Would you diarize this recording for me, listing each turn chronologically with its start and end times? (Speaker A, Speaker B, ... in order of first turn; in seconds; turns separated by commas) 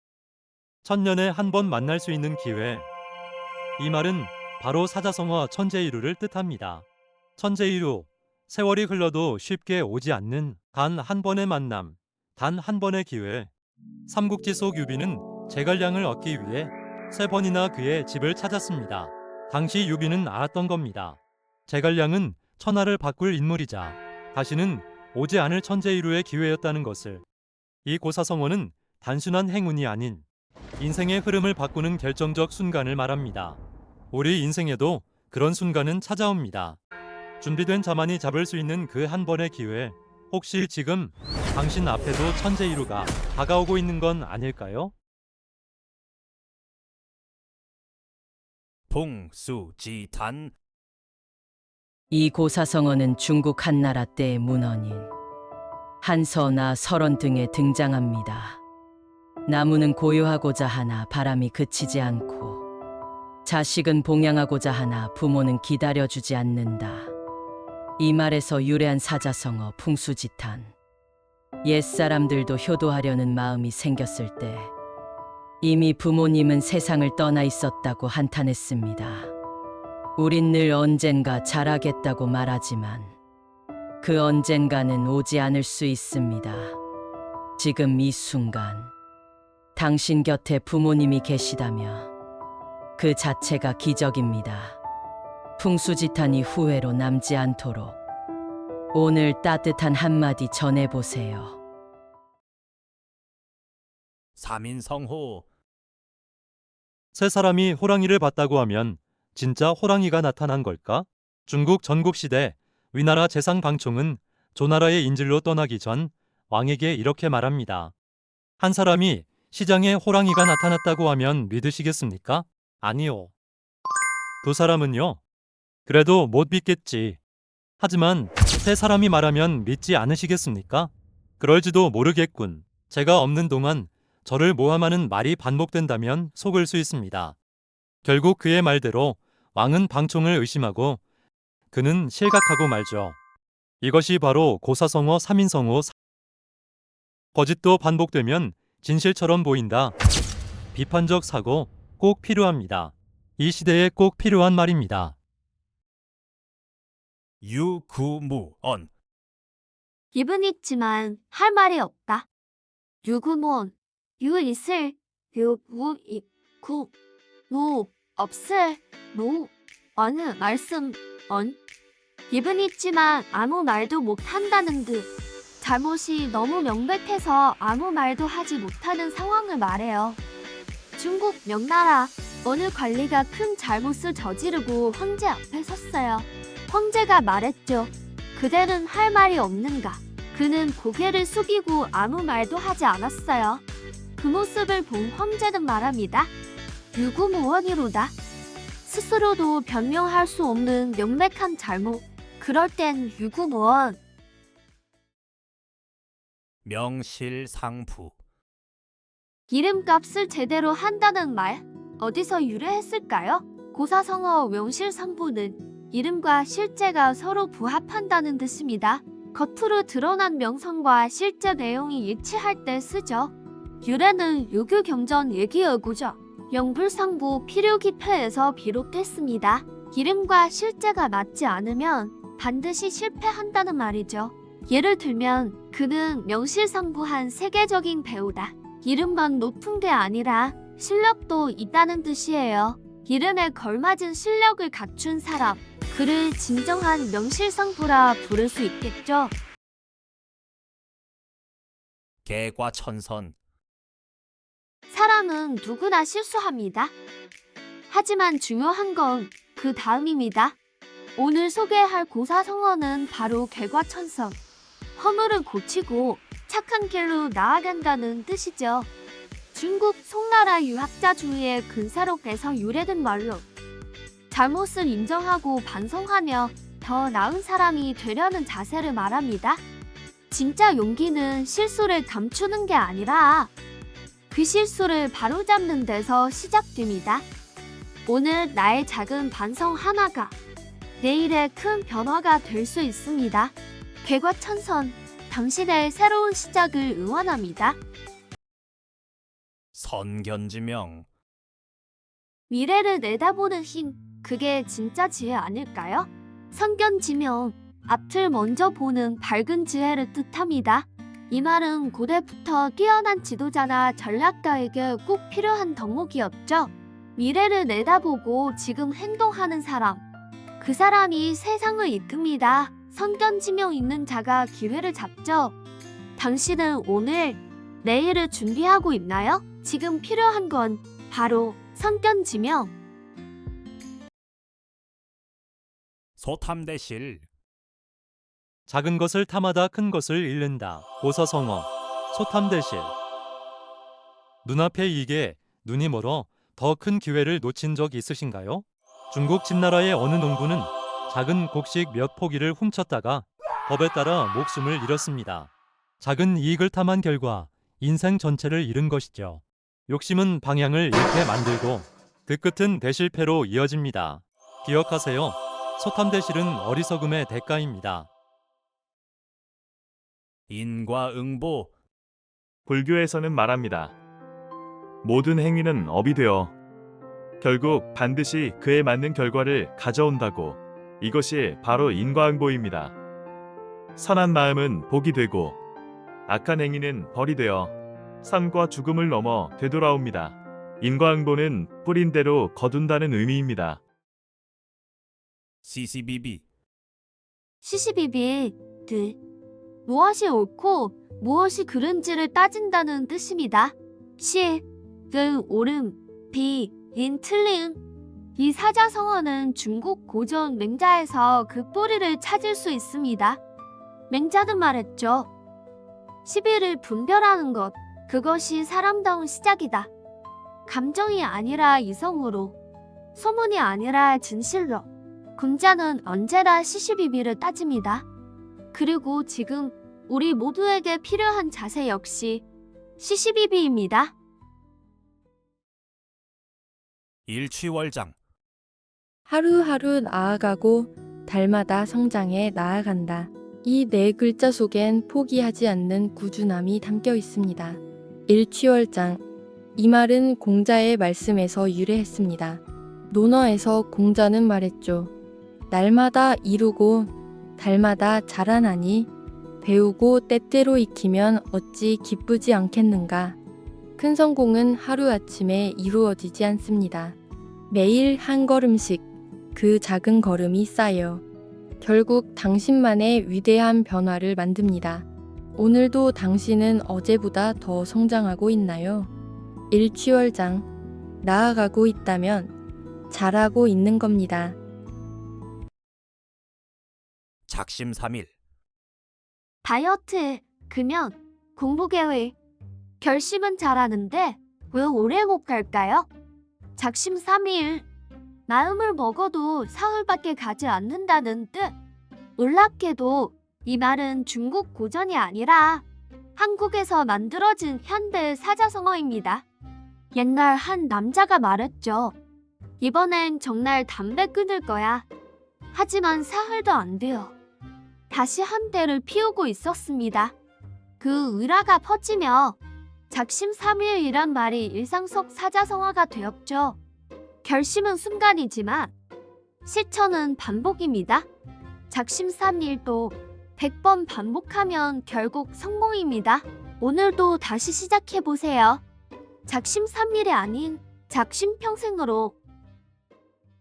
Speaker A: 0.8-2.9, Speaker A: 3.8-6.9, Speaker A: 7.4-13.5, Speaker A: 14.1-27.2, Speaker A: 27.9-30.2, Speaker A: 30.8-33.6, Speaker A: 34.1-36.8, Speaker A: 37.4-44.9, Speaker B: 48.9-50.5, Speaker C: 52.1-55.1, Speaker C: 56.0-58.6, Speaker C: 59.5-62.7, Speaker C: 63.5-67.1, Speaker C: 68.0-70.7, Speaker C: 71.6-74.7, Speaker C: 75.6-79.3, Speaker C: 80.2-83.2, Speaker C: 84.0-86.8, Speaker C: 87.6-88.9, Speaker C: 89.8-92.1, Speaker C: 93.0-94.8, Speaker C: 95.6-98.0, Speaker C: 98.9-101.6, Speaker B: 104.4-105.5, Speaker A: 107.1-117.9, Speaker A: 118.6-123.3, Speaker A: 124.4-125.2, Speaker A: 125.9-127.2, Speaker A: 127.8-137.4, Speaker A: 138.0-141.0, Speaker A: 141.7-143.2, Speaker A: 143.8-145.9, Speaker A: 147.3-150.0, Speaker A: 150.7-155.2, Speaker B: 157.4-158.9, Speaker D: 160.1-162.3, Speaker D: 163.0-166.9, Speaker D: 167.5-171.6, Speaker D: 172.3-175.1, Speaker D: 175.6-180.2, Speaker D: 181.0-193.6, Speaker D: 194.2-196.3, Speaker D: 196.9-198.2, Speaker D: 198.8-204.0, Speaker B: 206.6-208.2, Speaker D: 209.5-249.3, Speaker B: 252.2-253.4, Speaker D: 254.9-256.9, Speaker D: 257.9-260.6, Speaker D: 261.2-264.4, Speaker D: 265.0-268.9, Speaker D: 269.5-273.4, Speaker D: 274.3-279.6, Speaker D: 280.3-283.5, Speaker D: 284.3-287.3, Speaker D: 288.1-290.4, Speaker D: 291.0-297.8, Speaker B: 299.7-301.1, Speaker D: 302.5-320.0, Speaker D: 320.6-325.6, Speaker D: 326.2-332.7, Speaker B: 336.2-337.3, Speaker A: 338.7-342.9, Speaker A: 344.4-368.1, Speaker B: 370.5-371.7, Speaker E: 372.7-374.0, Speaker E: 375.0-376.6, Speaker E: 377.4-383.0, Speaker E: 384.0-385.6, Speaker E: 386.3-393.8, Speaker B: 395.6-396.4, Speaker D: 397.6-399.2, Speaker D: 399.9-407.8, Speaker D: 408.4-413.4, Speaker D: 414.1-415.3, Speaker D: 416.2-419.9, Speaker D: 420.7-422.6, Speaker D: 423.1-428.1, Speaker D: 428.7-432.4, Speaker D: 433.0-434.1, Speaker B: 437.3-438.2, Speaker F: 439.3-449.2, Speaker F: 449.8-455.1, Speaker F: 455.7-459.1, Speaker F: 459.6-463.4, Speaker F: 464.0-467.2, Speaker F: 467.7-469.0, Speaker F: 469.6-471.2, Speaker F: 471.8-479.1, Speaker F: 479.7-480.7, Speaker F: 481.2-482.5, Speaker F: 483.1-484.6, Speaker B: 487.5-488.3, Speaker D: 489.6-492.4, Speaker D: 493.0-496.1, Speaker D: 496.8-497.9, Speaker D: 498.5-501.8, Speaker D: 502.4-505.9, Speaker D: 506.4-509.4, Speaker D: 510.1-512.1, Speaker D: 512.8-515.1, Speaker D: 515.7-517.3, Speaker D: 518.1-520.3, Speaker D: 521.0-522.6, Speaker D: 523.1-526.8, Speaker D: 527.4-528.9, Speaker D: 529.6-531.3, Speaker D: 531.9-538.8, Speaker D: 539.5-542.4